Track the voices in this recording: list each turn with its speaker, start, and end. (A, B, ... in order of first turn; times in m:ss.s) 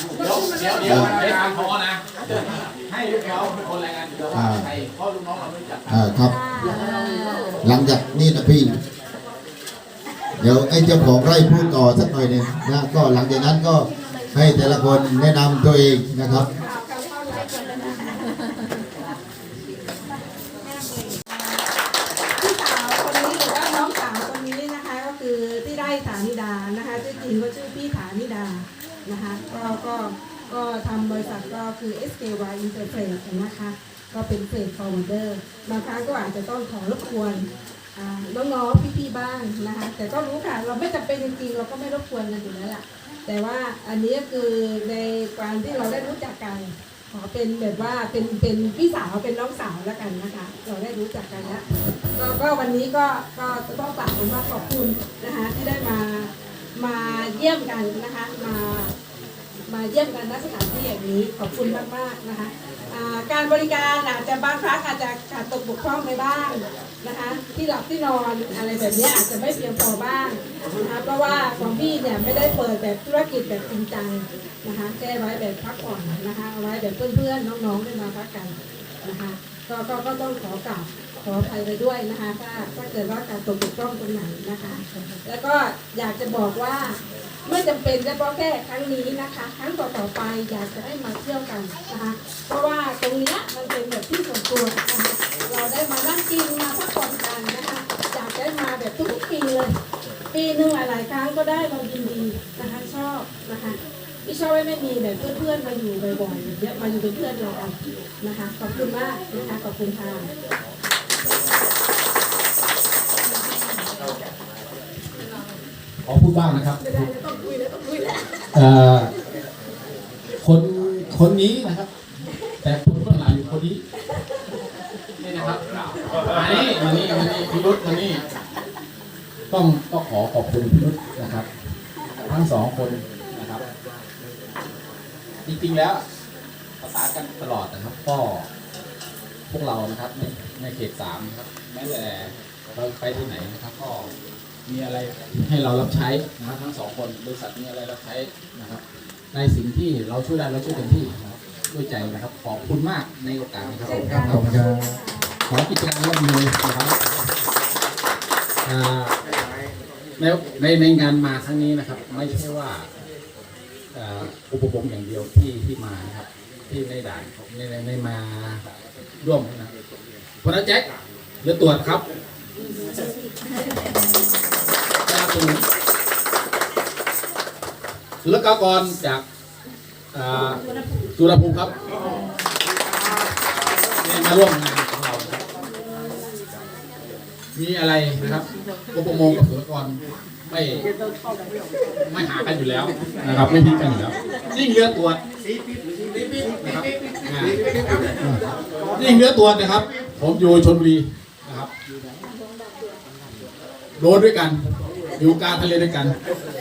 0:00.2-0:05.8 A
0:00.8-0:01.1 B
0:04.3-0:04.7 B
0:05.9-0:06.3 B
0:06.2-0:06.9 C
0:07.6-0:08.8 B
0:10.4-0:16.5 B
0:16.6-0:18.9 C
0:22.4-0:51.6 C
0:52.2-0:58.9 C
0:59.7-1:39.7 C
1:40.3-1:50.3 C
1:56.0-1:57.1 A
1:56.8-1:58.3 C
1:58.5-1:59.1 A
2:00.4-2:01.9 A
2:02.6-2:03.8 A
2:05.2-2:08.2 A
2:09.5-2:11.5 A
2:12.2-2:13.6 A
2:15.4-2:16.0 A
2:16.8-2:18.5 A
2:19.5-2:24.1 A
2:24.7-2:28.8 A
2:29.3-2:34.5 A
2:33.8-2:35.4 C
2:34.2-2:35.0 B
2:35.5-2:37.3 A
2:38.6-2:39.2 A
2:40.2-2:42.9 A
2:43.9-2:48.6 A
2:49.2-2:49.7 A
2:50.4-2:50.9 A
2:51.4-2:52.0 A
2:55.1-2:55.6 A
2:58.2-2:59.2 A
3:00.1-3:01.7 A
3:04.0-3:05.4 A
3:07.6-3:10.9 A
3:12.0-3:15.2 A
3:16.4-3:18.4 A
3:19.0-3:21.7 A
3:24.0-3:24.6 A
3:25.2-3:26.2 A